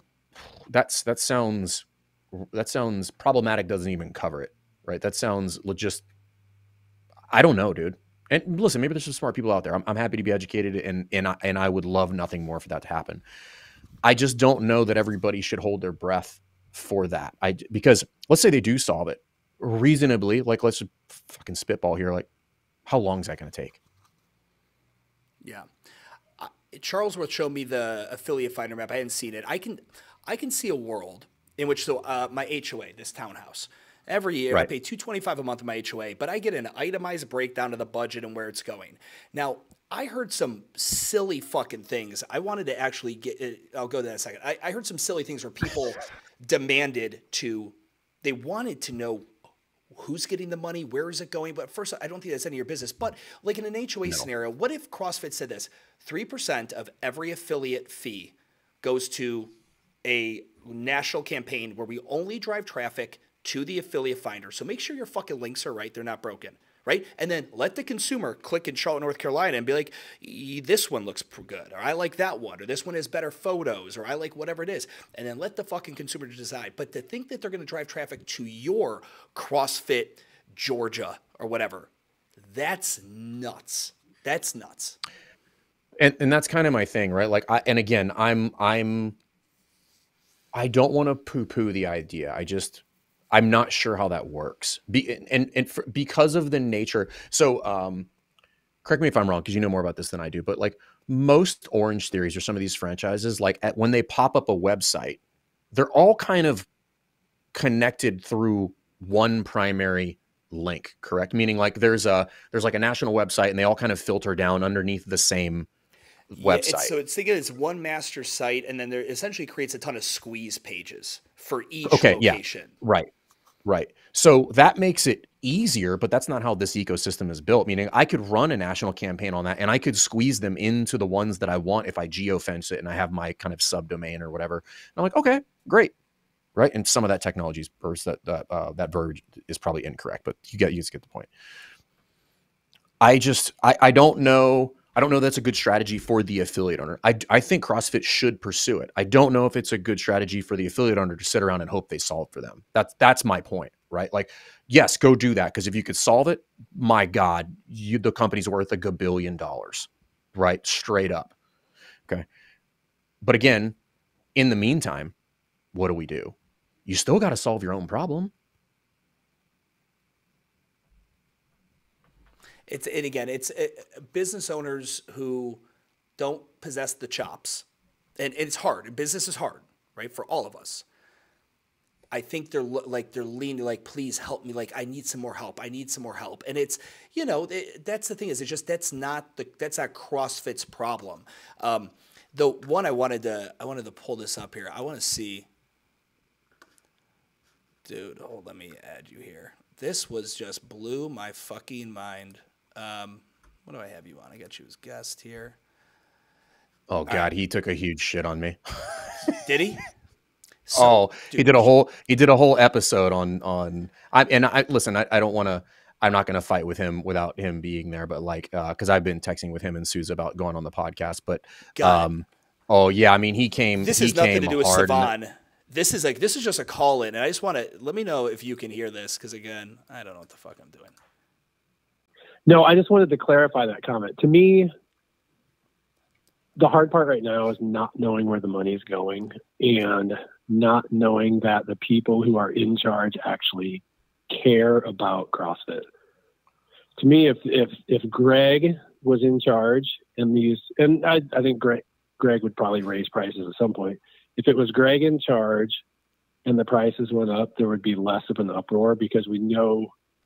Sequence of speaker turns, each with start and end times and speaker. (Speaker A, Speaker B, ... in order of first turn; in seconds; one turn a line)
Speaker A: 0.4-6.0
Speaker A: 7.3-13.2
Speaker A: 14.0-22.3
Speaker A: 22.9-23.8
Speaker B: 25.4-25.7
Speaker B: 26.4-49.3
Speaker B: 49.9-59.5
Speaker B: 60.0-85.0
Speaker A: 86.0-89.2
Speaker A: 90.5-98.1
Speaker A: 98.8-105.2
Speaker A: 105.7-106.7
Speaker A: 107.5-115.7
Speaker A: 116.3-116.9
Speaker B: 116.4-122.7
Speaker A: 121.8-123.1
Speaker A: 123.6-135.9
Speaker A: 136.5-141.3
Speaker A: 143.0-161.3
Speaker A: 163.2-163.8
Speaker A: 164.3-165.1
Speaker A: 165.7-166.3
Speaker A: 166.8-168.3
Speaker B: 172.7-175.6
Speaker B: 176.2-177.6
Speaker B: 178.2-180.8
Speaker B: 182.1-195.5
Speaker B: 197.8-205.6
Speaker A: 206.9-209.3
Speaker B: 209.4-209.8
Speaker B: 210.7-211.7
Speaker A: 210.7-225.1
Speaker B: 221.8-222.1
Speaker B: 223.8-230.9
Speaker C: 232.4-234.7
Speaker C: 236.6-245.9
Speaker C: 247.0-255.8
Speaker C: 256.4-259.9